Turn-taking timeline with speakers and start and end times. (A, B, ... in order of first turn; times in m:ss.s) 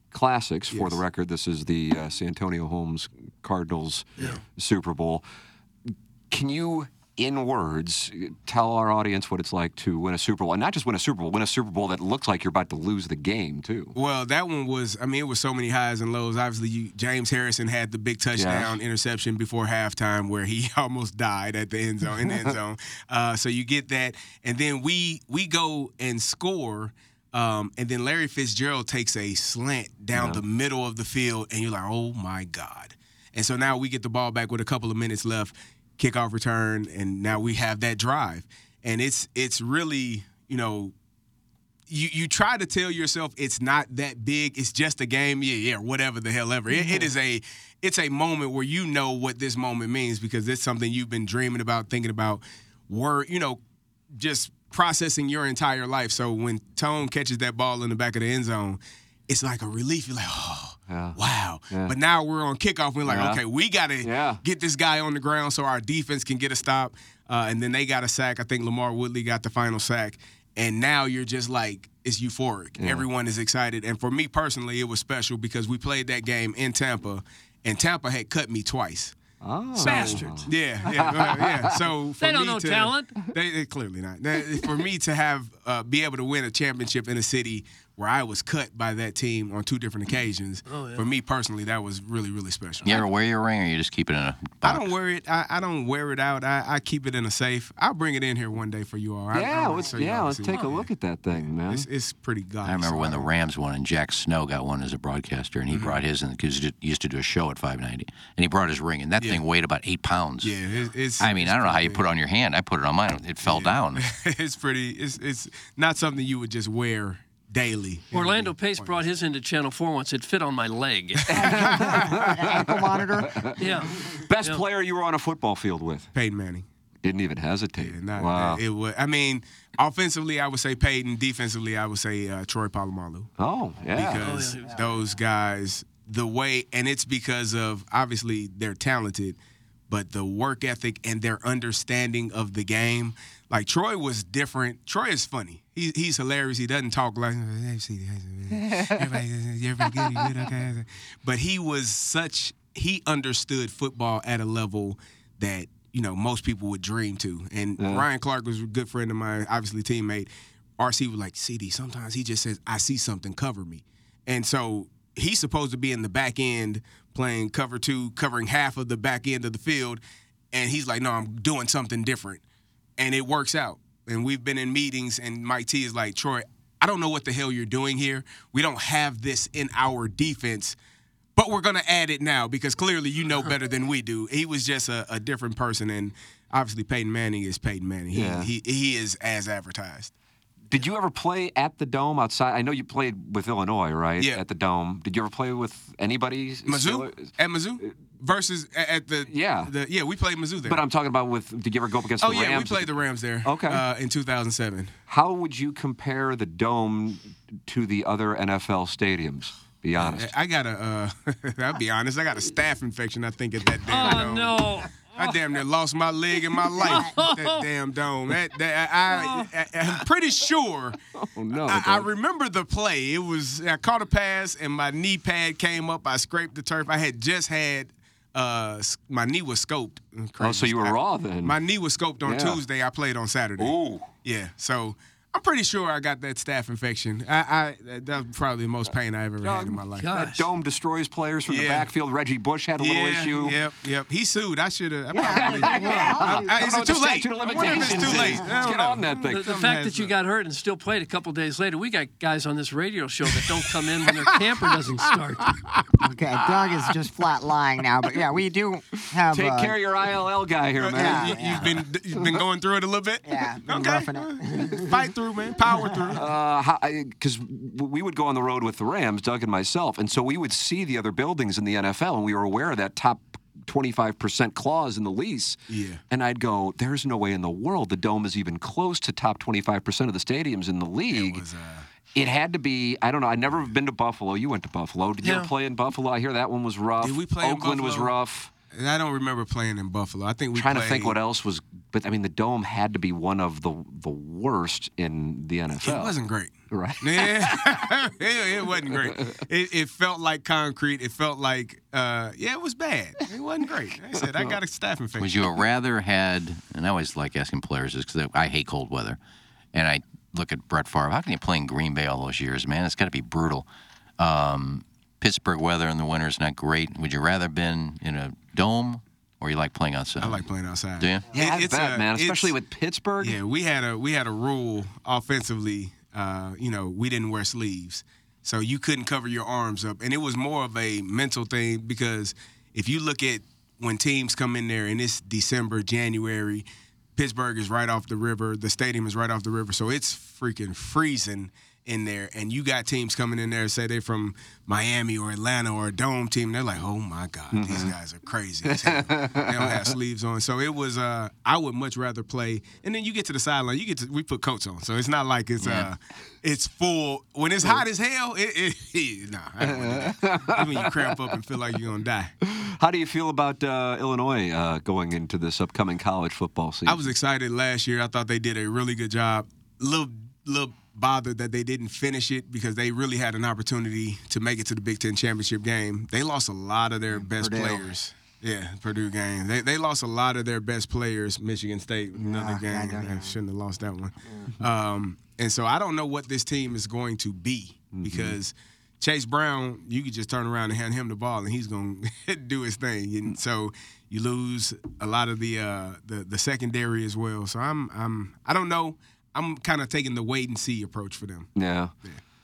0:00.1-0:05.2 A
0:00.7-0:01.0 B
0:06.3-0:14.0 A
0:14.0-0:40.9 B
0:18.4-0:18.8 A
0:30.1-0:30.4 A
0:41.9-0:53.6 B
0:54.1-1:19.2 B
1:00.9-1:01.2 A
1:01.7-1:02.0 A
1:03.1-1:03.4 A
1:04.0-1:04.4 A
1:12.8-1:13.1 A
1:19.4-1:21.8 A
1:19.8-1:33.0 B
1:19.8-1:20.5 C
1:22.2-1:23.2 C
1:30.7-1:31.1 C
1:32.8-1:34.9 D
1:34.6-1:43.3 B
1:39.3-1:41.9 A
1:42.6-1:50.6 D
1:45.7-1:46.0 B
1:50.4-1:52.1 B
1:51.2-1:54.0 D
1:53.4-1:59.1 B
1:58.1-2:01.4 C
2:01.3-2:03.6 A
2:01.4-2:03.6 E
2:01.4-2:02.1 B
2:03.6-2:04.6 C
2:04.2-2:06.1 A
2:06.1-2:06.6 B
2:07.0-2:08.6 A
2:07.8-2:13.3 B
2:13.4-2:14.4 A
2:13.8-2:19.4 B
2:14.2-2:14.8 C
2:19.9-2:50.0 B
2:28.6-2:29.1 A
2:37.8-2:38.1 A
2:50.5-2:52.4 B
2:53.0-3:00.8 B
3:01.4-3:10.1 B
3:08.1-3:08.5 A
3:10.7-3:17.9 A
3:14.2-3:14.4 B
3:16.7-3:20.8 B
3:19.3-3:19.7 A
3:20.6-3:22.9 A
3:22.2-3:24.9 B
3:23.4-3:23.8 A
3:25.1-3:30.3 A
3:29.9-3:41.0 B
3:33.9-3:35.4 C
3:36.8-3:37.7 C
3:36.9-3:37.1 E
3:39.1-3:39.5 C
3:41.2-3:42.1 A
3:41.6-4:00.2 B
3:50.4-3:51.6 A
3:52.2-3:52.6 A
3:53.6-3:54.1 A
3:59.4-4:03.6 A
4:00.0-4:00.5 C
4:01.5-4:01.9 B
4:02.8-4:10.1 B
4:05.1-4:06.9 E
4:05.2-4:09.5 A
4:09.3-4:15.5 C
4:14.2-4:15.9 B
4:16.0-4:19.8 E
4:19.3-4:22.4 A
4:20.8-4:26.3 B
4:20.9-4:21.8 E
4:23.2-4:25.0 E
4:26.1-4:41.4 A
4:35.7-4:36.0 B
4:41.1-4:41.9 B
4:42.1-4:48.5 A
4:45.2-4:45.5 C
4:47.0-4:48.2 B
4:48.7-4:51.2 B
4:50.6-4:56.2 A
4:55.7-5:05.5 B
4:56.7-4:57.8 A
4:58.9-4:59.4 A
5:05.2-5:09.2 D
5:09.7-5:13.7 D
5:14.2-5:20.4 D
5:20.2-5:22.6 B
5:21.0-5:21.3 D
5:21.3-5:23.4 A
5:23.2-5:36.6 B
5:37.2-6:02.3 B
5:47.5-5:47.9 A
5:48.7-5:49.9 A
5:55.6-5:55.9 D
5:59.7-6:00.9 A
6:02.5-6:07.1 A
6:06.8-6:41.5 B
6:17.1-6:17.9 E
6:22.2-6:23.4 E
6:27.9-6:28.4 A
6:41.6-6:42.0 A